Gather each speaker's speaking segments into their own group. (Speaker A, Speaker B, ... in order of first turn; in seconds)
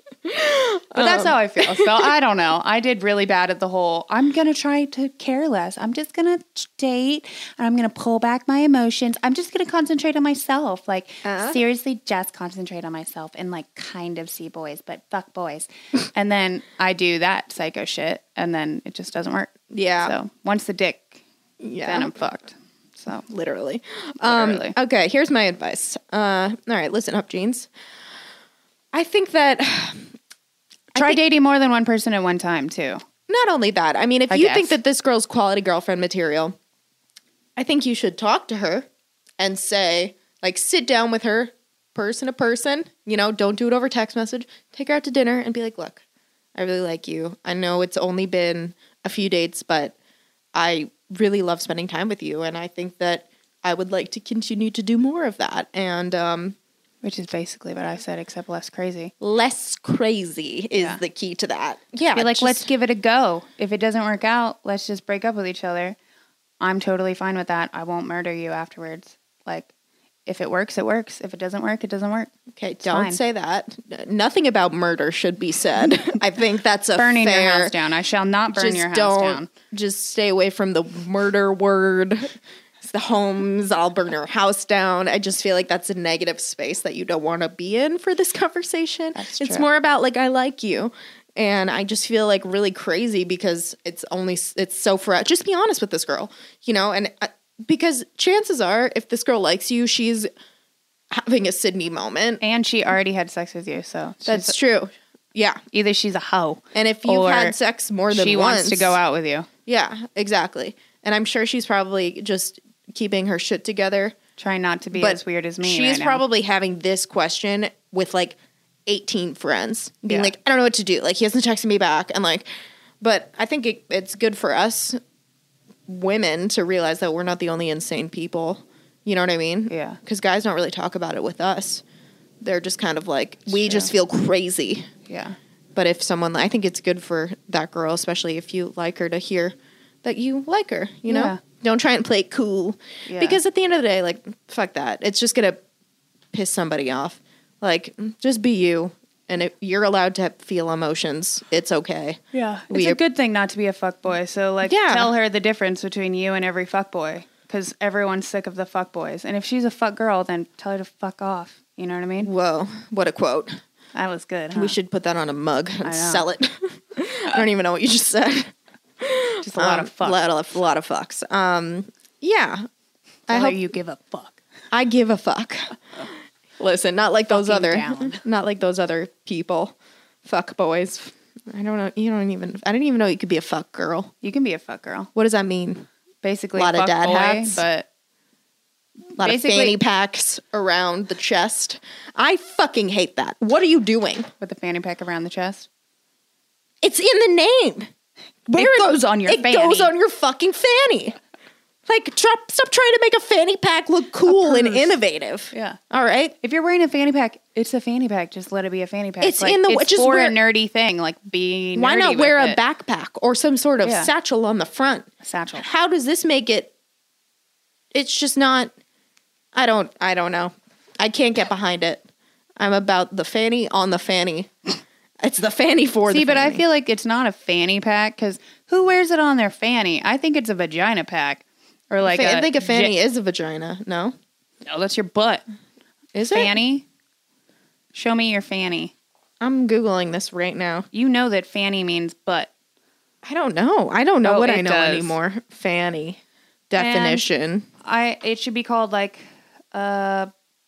Speaker A: 0.3-2.1, 11.2-11.6, 19.7-20.1, 21.6-22.1, 23.3-27.7, 28.9-30.1, 30.9-31.2, 33.3-36.5, 37.6-38.9, 39.4-46.0, 46.5-50.0, 50.5-56.6, 59.2-62.7, 72.5-77.8, 78.5-100.3, 101.1-102.4, 104.3-105.6, 106.8-109.0, 109.7-114.2, 114.9-122.5, 123.0-125.0, 125.9-131.8, 132.4-134.9, 135.8-145.6, 146.3-153.0, 154.6-155.1, 162.2-163.6, 164.6-172.7, 173.3-173.6, 174.7-176.1, 176.6-184.1, 185.2-185.8, 186.6-187.6, 189.2-194.3, 196.8-197.9, 198.5-201.2, 201.9-206.3, 209.2-210.4, 211.8-216.7, 217.9-218.7, 219.6-222.1, 222.6-224.5, 225.2-226.6, 232.1-234.2, 236.2-236.6, 239.4-240.9, 243.2-246.2, 246.7-247.7
Speaker B: 0.9-21.2, 21.9-23.2, 24.2-24.8, 30.9-33.0, 34.3-34.8, 57.0-59.1, 60.7-61.0, 62.1-66.0, 66.6-69.7, 70.3-72.3, 72.8-73.2, 77.0-79.5, 89.2-89.7, 102.4-104.6, 105.7-107.6, 108.1-109.5, 114.4-116.2, 129.7-130.0, 133.5-133.9, 135.1-135.4, 141.1-141.4, 143.1-143.4, 152.3-162.3, 163.9-164.8, 165.8-166.2, 169.4-170.2, 173.3-174.4, 177.3-178.2, 184.2-185.1, 186.2-187.9, 189.2-189.8, 194.4-195.7, 198.5-199.9, 204.3-205.0, 205.5-205.8, 206.4-212.6, 213.8-214.1, 215.2-215.7, 226.1-233.0, 234.7-235.4, 236.3-236.9, 237.9-238.9, 240.9-242.5, 244.2-245.2, 246.8-247.2, 247.8-250.3